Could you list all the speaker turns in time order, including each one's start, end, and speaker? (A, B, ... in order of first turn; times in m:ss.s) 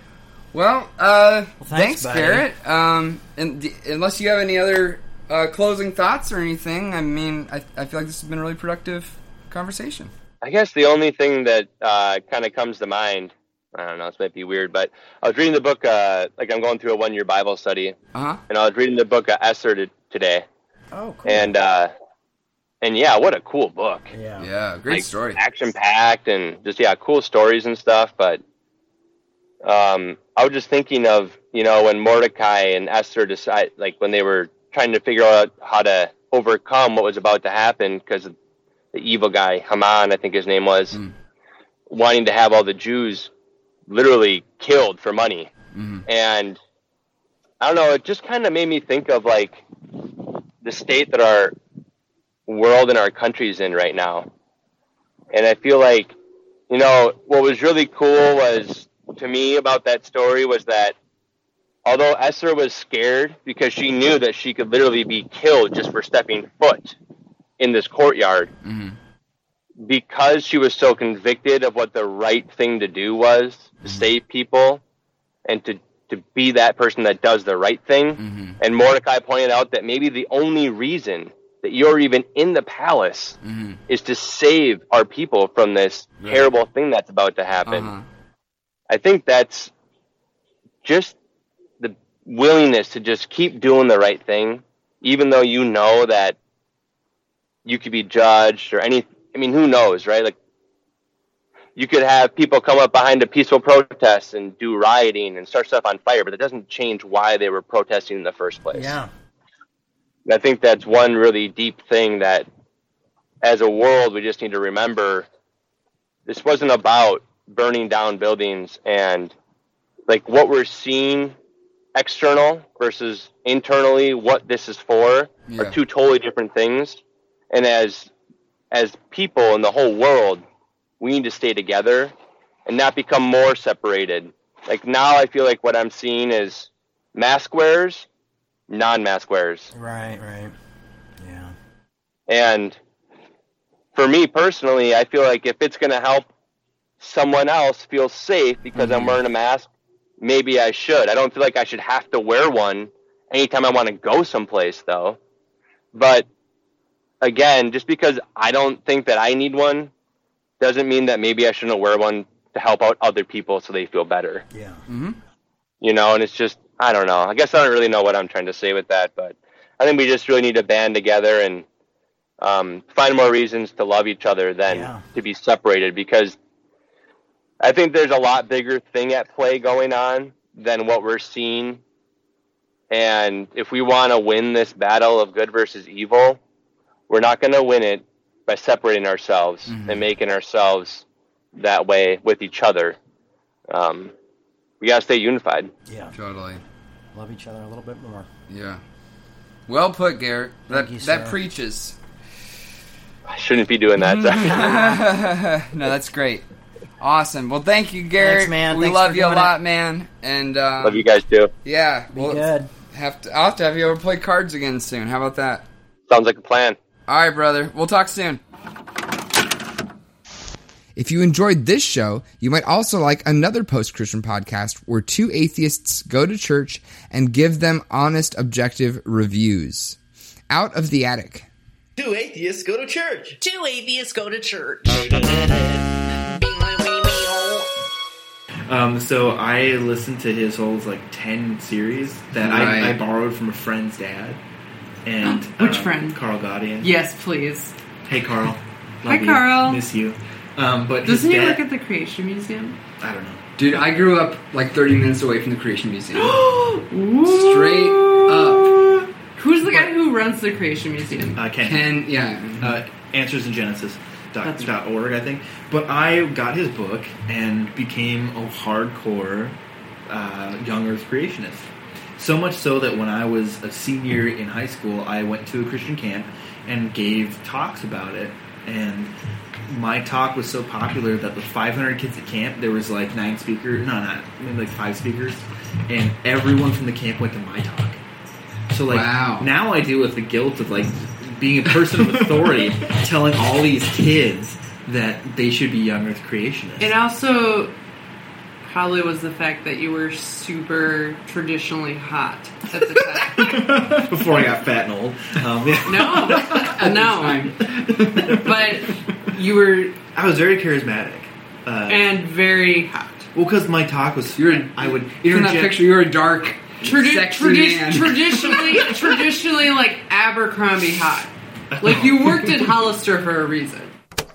0:00.5-0:10.1 A
0:01.6-0:02.4 B
0:10.4-0:18.0 C
0:18.1-0:18.4 A
0:18.5-0:20.4 C
0:20.9-0:21.5 B
0:21.2-0:21.9 C
0:22.8-0:24.1 C
0:24.1-0:24.5 B
0:24.4-0:25.4 A
0:24.9-0:28.4 C
0:29.6-0:38.3 C
0:38.9-0:41.0 C
0:41.9-0:43.3 C
0:43.9-0:45.5 C
0:45.7-0:46.0 A
0:46.1-0:46.6 C
0:47.6-0:49.6 C
0:50.6-0:51.5 C
0:52.5-0:54.3 C
0:55.3-0:56.1 C
0:56.7-1:00.9 C
1:01.8-1:07.0 C
1:07.6-1:08.5 C
1:08.6-1:09.0 A
1:09.8-1:14.8 C
1:15.4-1:23.4 C
1:18.2-1:18.6 A
1:23.4-1:23.8 A
1:23.9-1:27.9 C
1:26.2-1:26.5 A
1:27.6-1:28.0 A
1:28.9-1:29.7 C
1:30.8-1:31.2 C
1:31.8-1:36.4 C
1:37.6-1:40.4 C
1:41.8-1:49.0 C
1:48.7-1:49.1 B
1:50.2-1:52.4 C
1:53.4-1:55.3 C
1:56.3-1:59.3 C
2:00.1-2:01.3 C
2:01.9-2:07.0 C
2:05.5-2:05.8 A
2:07.5-2:08.1 C
2:08.7-2:10.4 C
2:11.0-2:12.1 C
2:12.6-2:18.0 C
2:18.7-2:19.7 C
2:19.7-2:20.5 B
2:21.2-2:21.5 B
2:22.3-2:22.8 C
2:23.9-2:26.3 C
2:27.0-2:29.7 C
2:28.7-2:29.2 A
2:30.2-2:35.2 C
2:35.9-2:36.3 C
2:37.2-2:39.9 C
2:40.6-2:44.4 C
2:44.5-2:44.8 B
2:44.9-2:45.2 A
2:45.8-2:51.6 C
2:52.4-2:56.4 C
2:54.7-2:55.0 B
2:57.6-3:01.8 C
3:02.9-3:06.4 C
3:07.1-3:13.0 C
3:09.7-3:10.0 A
3:13.7-3:14.1 C
3:14.8-3:15.7 C
3:15.9-3:16.1 B
3:16.1-3:16.6 A
3:17.1-3:18.3 B
3:18.5-3:18.8 A
3:19.7-3:22.0 A
3:20.7-3:21.4 B
3:23.3-3:25.0 C
3:24.0-3:26.5 A
3:27.0-3:31.0 A
3:28.2-3:29.5 B
3:30.8-3:31.5 C
3:31.6-3:35.6 A
3:32.1-3:32.7 B
3:36.1-3:36.8 C
3:37.1-3:38.4 A
3:41.0-3:50.0 A
3:50.5-3:51.5 A
3:52.0-3:53.3 D
3:53.3-3:57.7 E
3:58.7-4:04.4 D
4:02.4-4:03.0 A
4:05.0-4:07.0 D
4:05.2-4:06.2 F
4:06.8-4:07.7 F
4:08.0-4:11.6 D
4:09.0-4:09.8 F
4:11.0-4:12.8 F
4:13.0-4:13.4 D
4:13.6-4:16.4 A
4:16.1-4:18.7 F
4:17.2-4:18.8 A
4:19.4-4:21.4 F
4:21.3-4:22.0 D
4:21.6-4:22.8 A
4:22.6-4:29.6 D
4:24.4-4:24.7 F
4:30.1-4:39.1 D
4:39.7-4:48.0 D
4:48.7-4:56.9 D
4:48.9-4:49.5 A
4:56.8-4:57.7 F
4:58.6-5:03.7 F
5:03.3-5:06.9 D
5:05.8-5:10.0 F
5:06.6-5:08.4 A
5:07.7-5:08.7 D
5:10.1-5:12.3 D
5:11.9-5:13.3 F
5:13.3-5:15.8 D
5:14.4-5:18.8 A
5:16.8-5:23.9 F
5:21.7-5:22.7 D